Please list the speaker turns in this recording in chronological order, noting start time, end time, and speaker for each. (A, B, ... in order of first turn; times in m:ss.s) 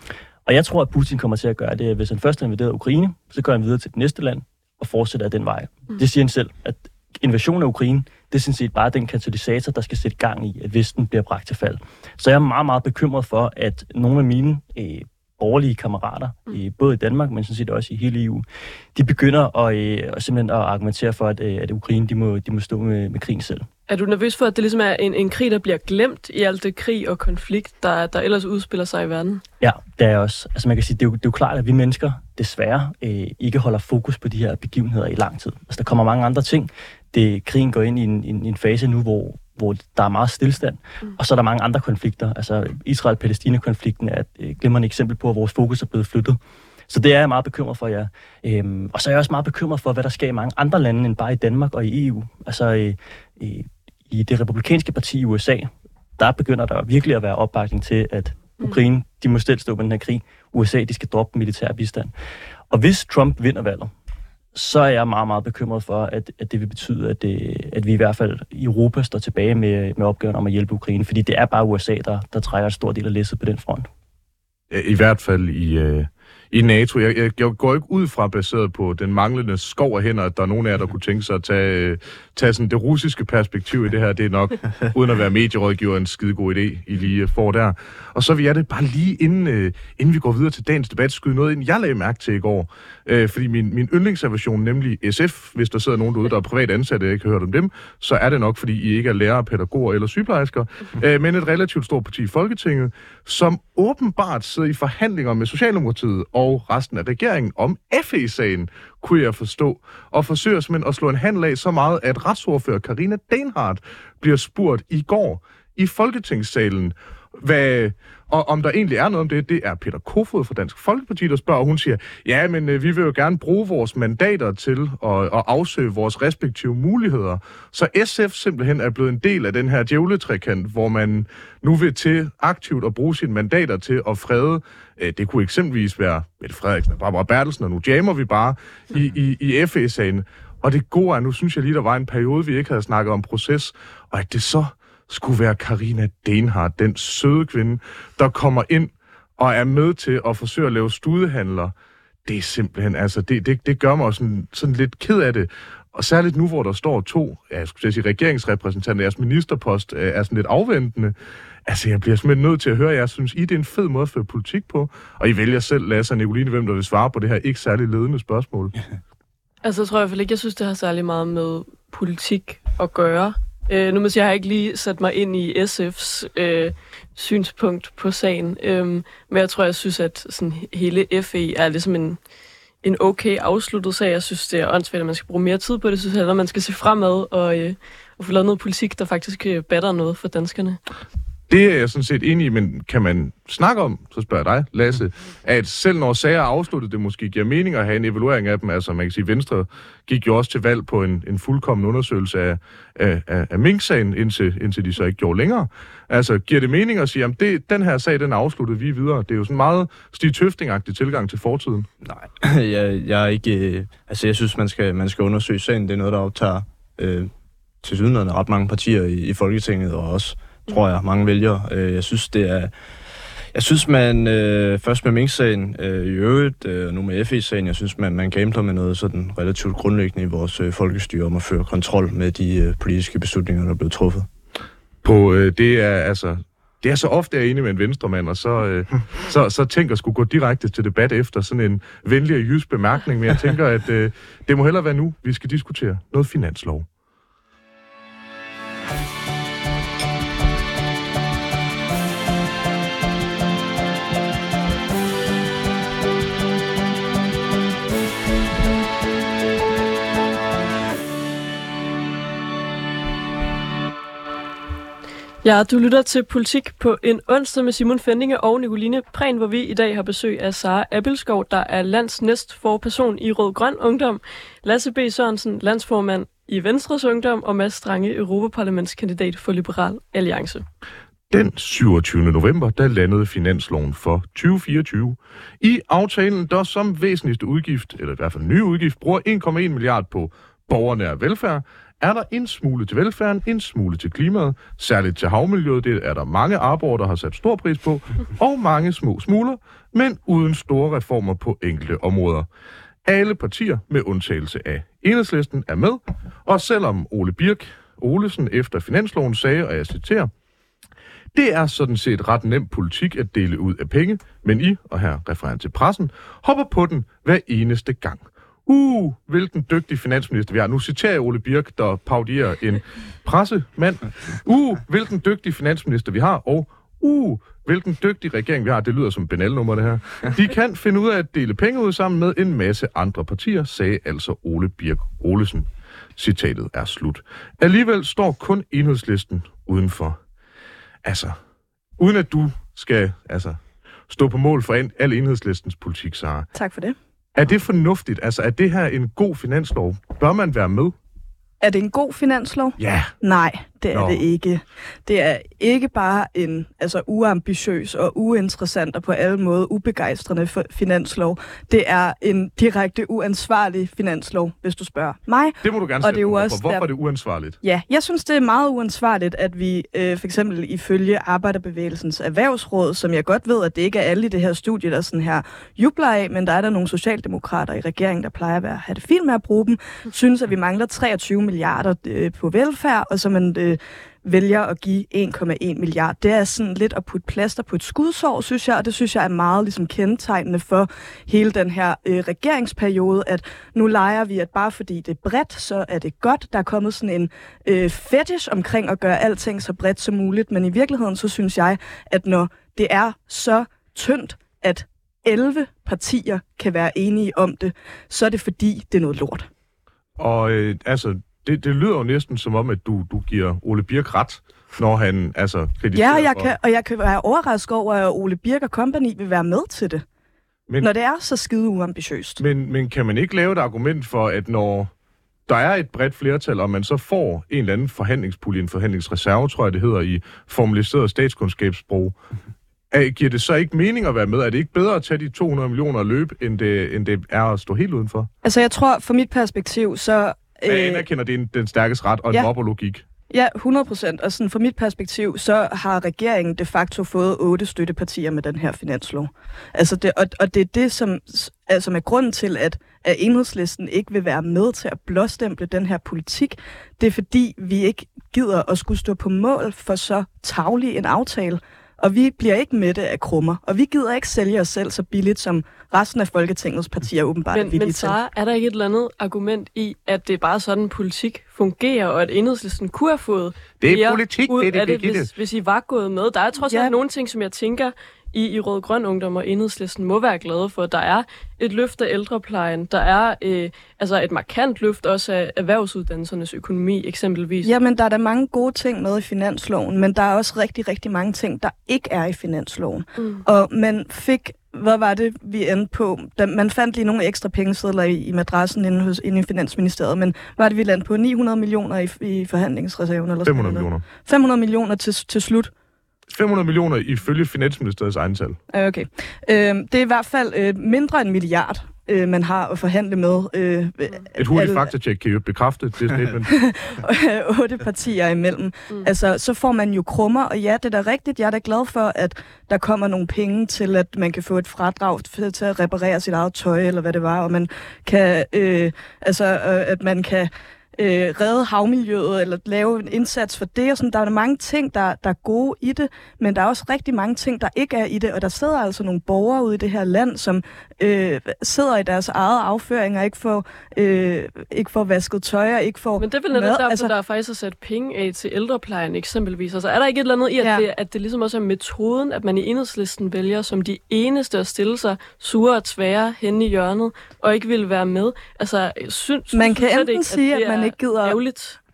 0:00.5-0:23.7 A
0:23.9-0:29.4 B
0:29.6-0:46.4 A
0:46.9-1:02.1 A
1:02.7-1:03.9 A
1:04.6-1:13.9 A
1:14.7-2:31.7 C
2:32.3-2:41.2 C
2:41.7-2:48.8 C
2:49.6-3:02.2 B
3:02.8-3:10.8 B
3:11.5-3:31.9 C
3:32.0-3:37.3 D
3:37.8-3:42.7 D
3:43.5-3:54.3 D
3:55.0-4:06.9 C
4:25.4-4:40.6 B
4:41.3-5:02.5 C
5:03.0-5:10.3 C
5:11.3-5:40.2 C
5:41.0-5:41.4 C
5:42.0-5:46.5 C
5:46.5-5:47.0 E
5:47.4-5:51.0 C
5:51.6-6:06.9 E
5:52.8-5:53.1 C
5:53.9-5:54.2 C
6:05.6-6:07.6 C
6:07.6-6:49.5 E
6:50.2-6:56.5 C
6:55.9-7:00.0 E
7:00.8-7:02.4 E
7:02.4-7:04.9 C
7:05.5-7:12.2 C
7:12.9-7:18.3 C
7:18.4-7:21.1 E
7:20.7-7:23.0 C
7:23.3-7:48.2 E
7:47.5-8:07.7 B
7:53.8-7:55.3 C
7:56.7-7:56.9 E
8:07.6-8:25.7 E
8:23.4-8:24.0 C
8:26.3-8:28.6 C
8:28.7-8:34.9 E
8:34.4-8:36.6 C
8:36.5-9:07.1 E
9:06.2-9:21.8 B
9:19.5-9:21.4 E